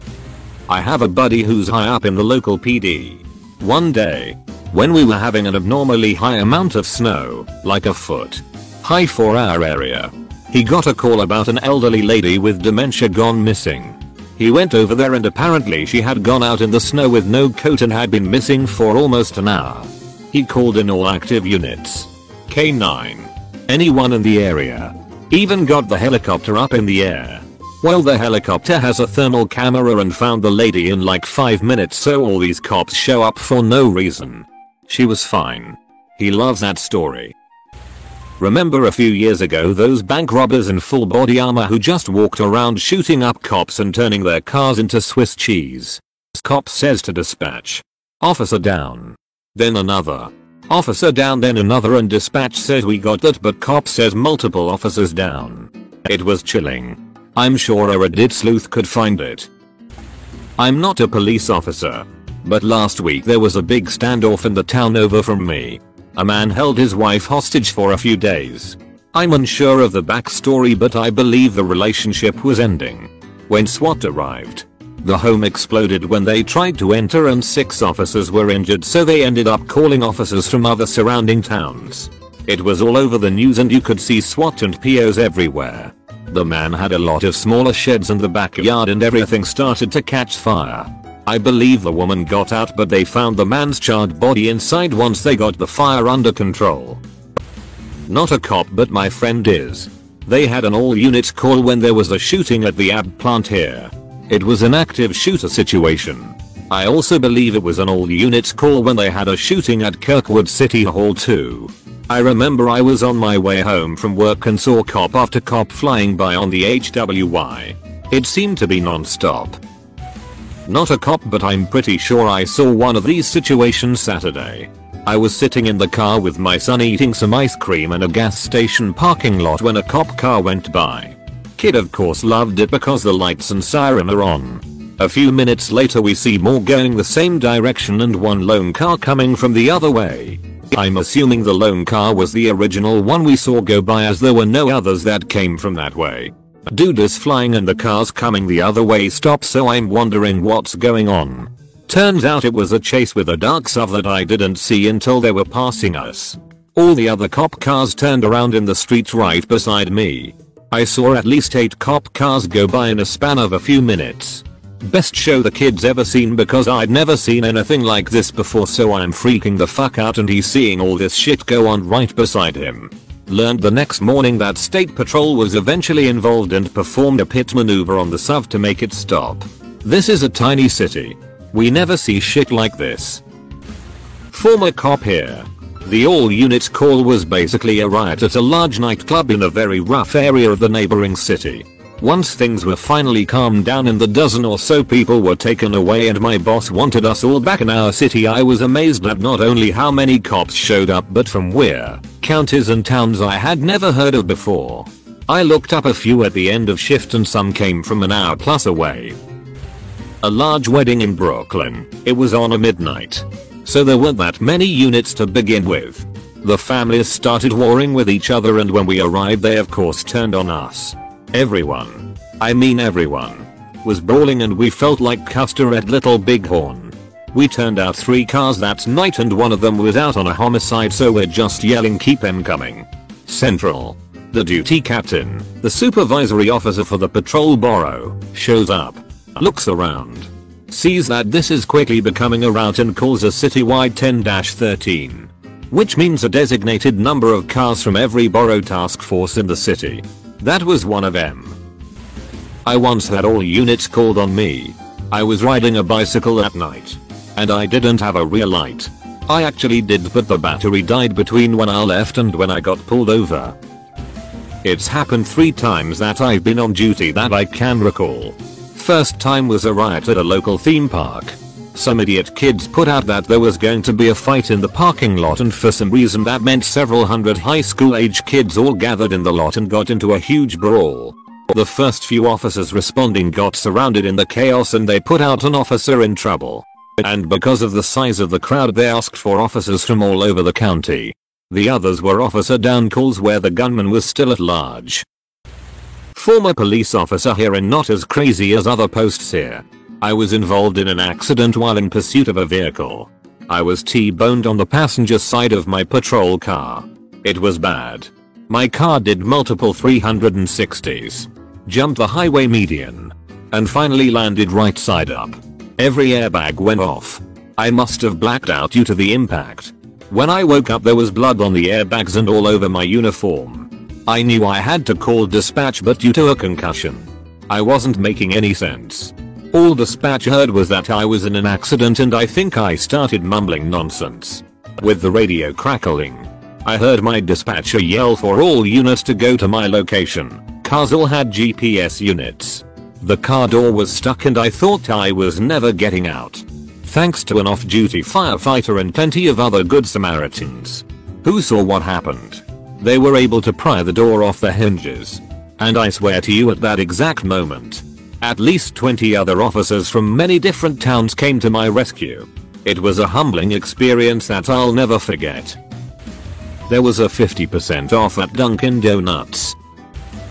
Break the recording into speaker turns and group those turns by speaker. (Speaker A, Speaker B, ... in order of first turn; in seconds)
Speaker A: 0.7-37.3, 38.4-59.5, 60.6-97.0, 98.1-119.6, 120.7-183.2, 184.3-209.2, 210.2-251.6, 252.7-263.5, 264.6-295.1, 296.1-365.6, 366.7-369.6